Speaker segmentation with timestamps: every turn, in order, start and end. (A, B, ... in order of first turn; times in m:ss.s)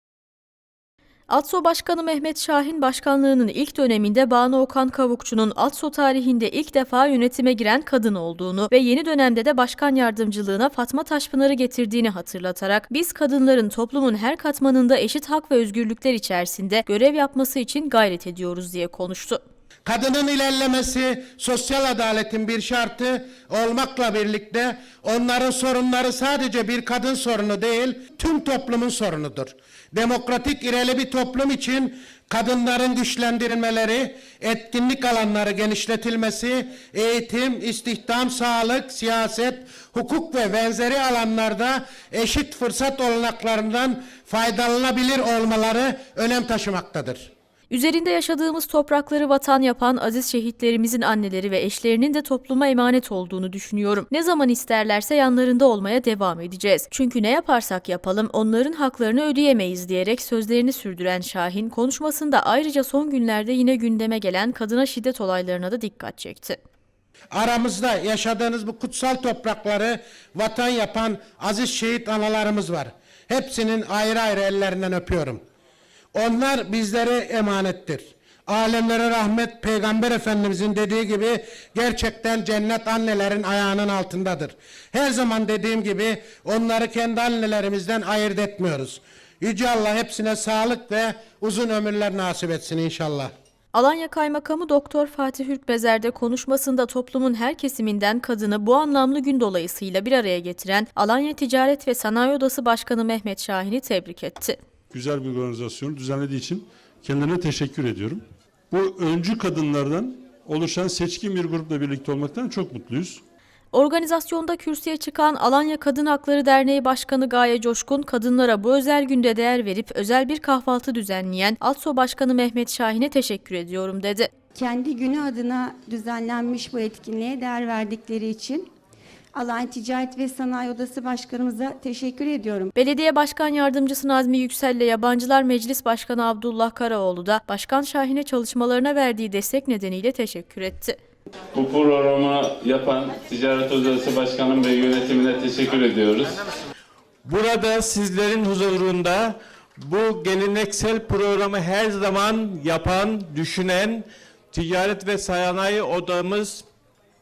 0:01.3-0:19.4 A
0:19.8-0:47.3 B
0:47.7-1:06.6 A
1:07.3-1:15.4 B
1:16.1-1:33.3 B
1:33.7-1:44.6 A
1:44.9-1:53.2 C
1:53.7-2:04.3 A
2:04.5-2:08.7 D
2:09.3-2:12.7 D
2:12.8-2:21.0 A
2:21.5-2:26.4 E
2:27.2-2:36.6 F